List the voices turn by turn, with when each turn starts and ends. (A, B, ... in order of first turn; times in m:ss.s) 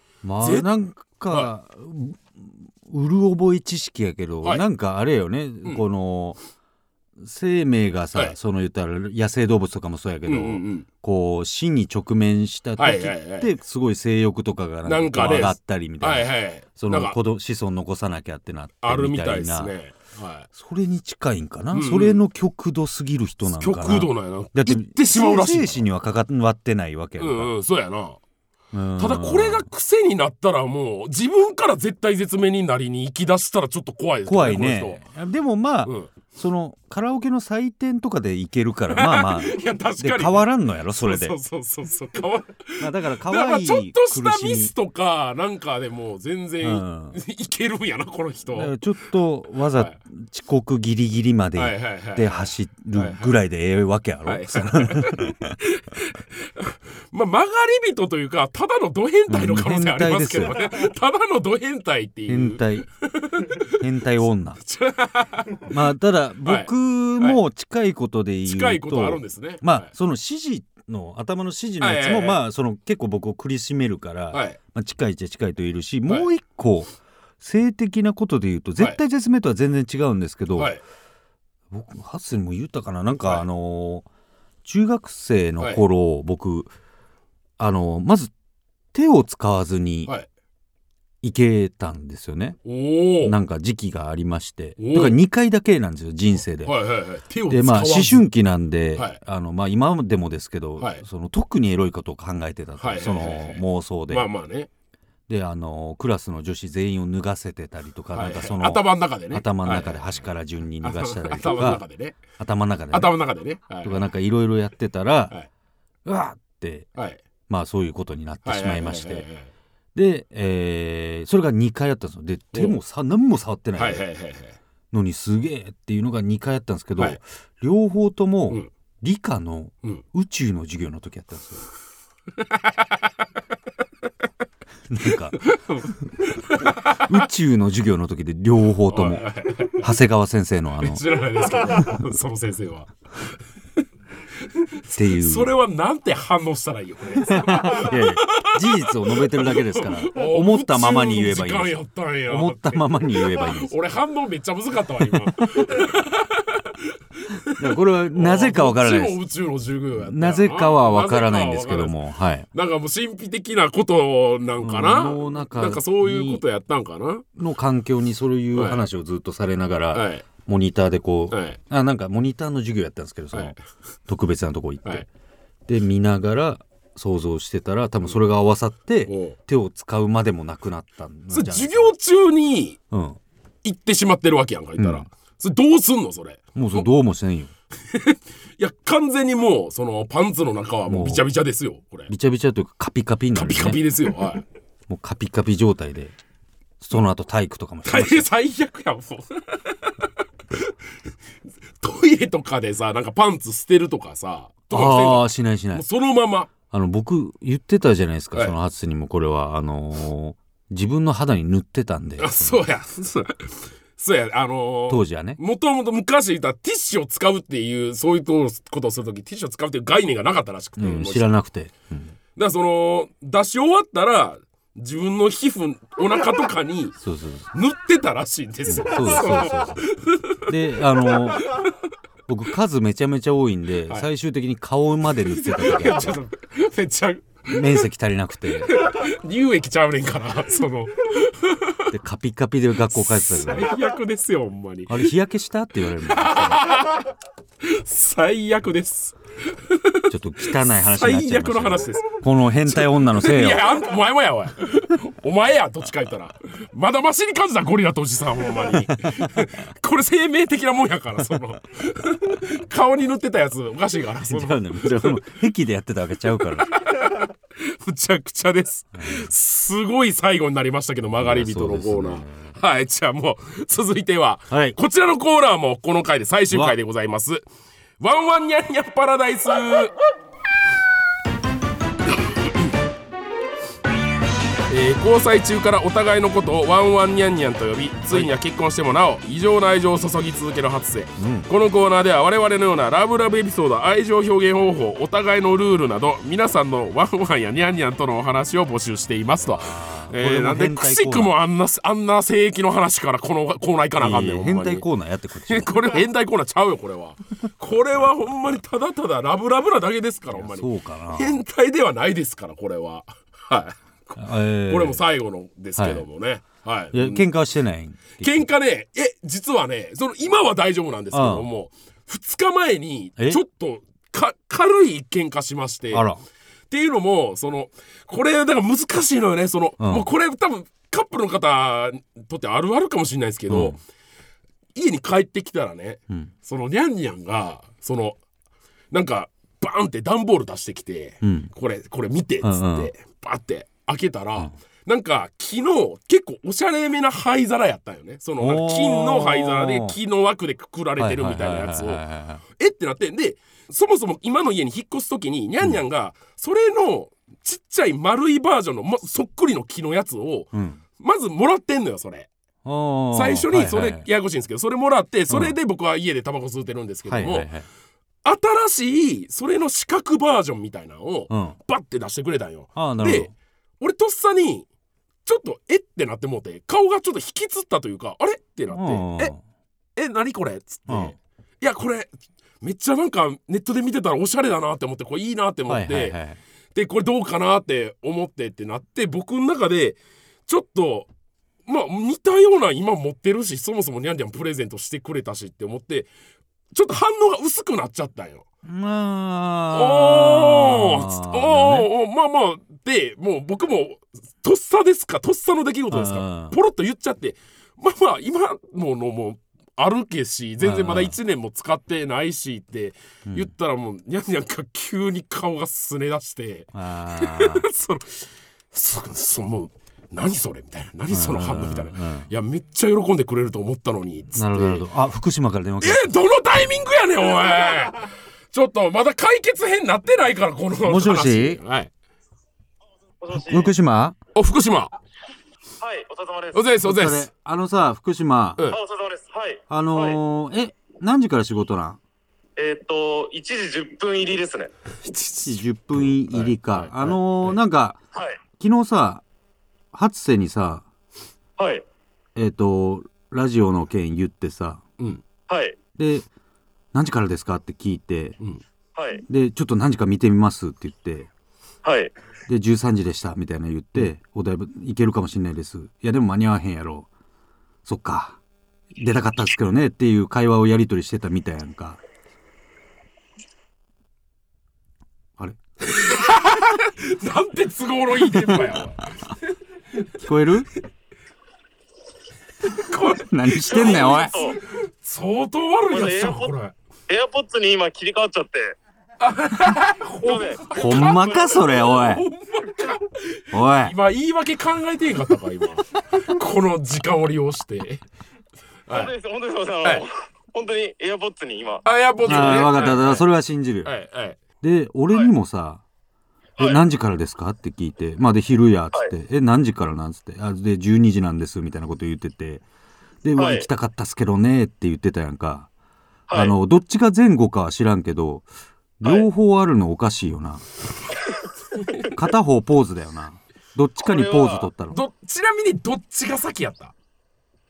0:00.2-0:06.4 A
0:00.4-0:00.7 B
0:07.2-0:19.7 A
0:10.3-0:10.9 B
0:12.8-0:13.5 B
0:14.8-0:17.2 B
0:18.8-0:20.5 B
0:20.5-0:27.5 A
0:21.7-0:22.2 B
0:23.5-0:25.8 B
0:27.2-0:28.2 B
0:28.7-0:29.7 A
0:29.0-0:35.0 B
0:34.3-0:41.4 A
0:35.9-0:36.1 B
0:38.9-0:48.8 B
0:42.8-0:44.7 A
0:46.6-0:47.2 A
0:48.5-0:55.6 A
0:51.6-0:53.4 B
0:54.2-1:03.8 B
0:59.3-1:00.6 A
1:02.3-1:02.9 A
1:03.7-1:04.6 A
1:04.6-1:05.7 B
1:05.7-1:20.7 A
1:06.4-1:07.4 B
1:08.4-1:09.9 B
1:11.8-1:12.4 B
1:14.3-1:14.6 B
1:21.7-1:24.1 A
1:24.6-1:26.7 A
1:27.6-1:28.3 A
1:28.9-1:30.1 A
1:31.2-1:32.6 A
1:32.6-1:33.4 B
1:33.2-1:36.8 A
1:34.8-1:35.2 B
1:36.6-1:38.2 B
1:37.5-1:44.3 A
1:42.8-1:44.7 B
1:45.3-1:51.8 A
1:48.1-1:50.1 B
1:50.8-1:52.2 B
1:52.4-1:53.1 A
1:52.9-1:54.1 B
1:53.8-1:55.4 A
1:56.1-1:56.9 A
1:57.5-1:59.2 A
1:58.4-1:59.5 B
2:00.0-2:04.0 A
2:03.8-2:04.6 B
2:04.9-2:11.6 A
2:12.4-2:13.0 B
2:14.9-2:15.4 A
2:15.1-2:17.2 B
2:17.1-2:21.0 A
2:18.9-2:19.9 B
2:20.8-2:23.4 B
2:24.4-2:42.0 B
2:24.9-2:25.5 A
2:27.3-2:33.8 A
2:35.0-2:35.9 A
2:37.6-2:39.2 A
2:40.0-2:42.5 A
2:42.5-2:47.3 B
2:44.6-2:46.4 A
2:47.4-2:53.6 A
2:48.5-2:48.8 B
2:49.9-2:50.3 B
2:51.3-2:51.6 B
2:53.3-2:53.6 B
2:54.1-2:55.0 A
2:55.7-3:01.9 A
2:59.1-2:59.4 B
3:01.3-3:02.8 B
3:02.9-3:03.2 A
3:03.6-3:06.9 B
3:04.8-3:05.1 A
3:06.6-3:07.5 A
3:07.9-3:12.1 B
3:10.9-3:11.3 A
3:12.1-3:13.8 A
3:13.4-3:14.4 B
3:14.9-3:16.2 A
3:16.8-3:18.3 A
3:17.8-3:19.9 B
3:21.8-3:26.5 B
3:24.7-3:25.8 A
3:26.7-3:32.6 A
3:32.2-3:41.3 B
3:34.9-3:35.4 A
3:40.8-3:42.1 A
3:42.4-3:47.0 B
3:47.0-3:47.5 A
3:47.5-3:51.7 B
3:48.7-3:49.9 A
3:50.4-3:51.6 A
3:52.3-3:56.2 A
3:55.3-3:57.9 B
3:57.5-3:58.8 A
3:58.6-4:01.8 B
4:01.9-4:03.8 A
4:03.1-4:05.1 B
4:04.9-4:06.7 A
4:06.0-4:25.3 B
4:10.1-4:13.7 A
4:18.7-4:19.4 A
4:24.2-4:26.7 A
4:26.6-4:37.4 B
4:29.0-4:29.3 A
4:31.2-4:32.5 A
4:34.5-4:34.8 A
4:38.0-4:40.0 B
4:44.7-5:04.8 B
4:51.2-4:51.5 A
4:59.4-5:01.4 A
5:04.0-5:05.7 A
5:05.5-5:17.3 B
5:10.3-5:11.4 A
5:14.2-5:15.0 A
5:15.8-5:16.0 A
5:16.9-5:18.5 A
5:18.1-5:26.1 B
5:21.1-5:21.5 A
5:25.9-5:26.2 A
5:26.7-5:33.8 B
5:29.8-5:30.1 A
5:33.5-5:33.8 A
5:34.8-5:38.2 B
5:38.9-6:02.3 B
5:41.2-5:41.5 A
5:42.4-5:42.9 A
5:48.4-5:50.0 A
5:51.0-5:52.4 A
6:00.5-6:00.8 A
6:02.6-6:04.1 A
6:03.1-6:07.5 B
6:05.3-6:05.6 A
6:07.1-6:07.7 A
6:08.2-6:14.7 B
6:11.3-6:11.6 A
6:12.8-6:13.3 A
6:15.3-6:19.3 B
6:18.7-6:19.4 A
6:20.0-6:22.1 B
6:20.9-6:21.1 A
6:22.6-6:26.2 B
6:25.7-6:26.4 A
6:26.8-6:31.1 B
6:31.7-6:36.1 B
6:36.7-6:38.4 B
6:38.6-6:41.9 A
6:39.7-7:04.8 B
6:45.9-6:46.6 A
6:50.6-6:51.2 A
6:56.7-6:57.7 A
7:01.1-7:02.3 A
7:04.4-7:06.1 A
7:05.8-7:11.9 B
7:10.8-7:11.6 A
7:13.2-7:13.7 C
7:13.3-7:14.2 A
7:14.4-7:15.0 B
7:15.8-7:16.6 C
7:16.5-7:17.3 B
7:16.8-7:18.6 A
7:18.7-7:20.2 C
7:19.7-7:22.0 A
7:22.6-7:24.7 C
7:25.0-7:27.6 B
7:25.4-7:28.0 A
7:28.6-7:29.2 A
7:29.9-7:30.8 A
7:31.6-7:31.8 C
7:32.4-7:34.8 A
7:35.5-7:35.8 C
7:36.0-7:36.3 A
7:36.9-7:38.4 A
7:39.0-7:39.2 C
7:39.3-7:41.3 A
7:41.8-7:42.1 C
7:42.5-7:47.1 A
7:47.8-7:48.4 A
7:49.0-7:52.0 A
7:55.8-7:59.5 B
7:58.3-7:58.6 A
8:00.2-8:00.7 A
8:02.7-8:06.7 B
8:03.1-8:04.5 A
8:03.6-8:04.6 C
8:05.9-8:06.5 C
8:07.1-8:08.8 C
8:09.2-8:18.0 B
8:10.2-8:11.7 C
8:10.7-8:12.3 A
8:13.5-8:14.0 A
8:18.9-8:21.9 C
8:21.8-8:23.3 B
8:22.2-8:23.9 A
8:23.8-8:24.4 B
8:24.6-8:25.8 A
8:26.6-8:32.6 A
8:33.2-8:35.7 A
8:33.4-8:33.7 C
8:36.3-8:36.6 C
8:36.3-8:38.5 A
8:39.0-8:40.7 A
8:42.1-8:45.0 A
8:44.0-8:44.7 C
8:44.9-8:46.9 B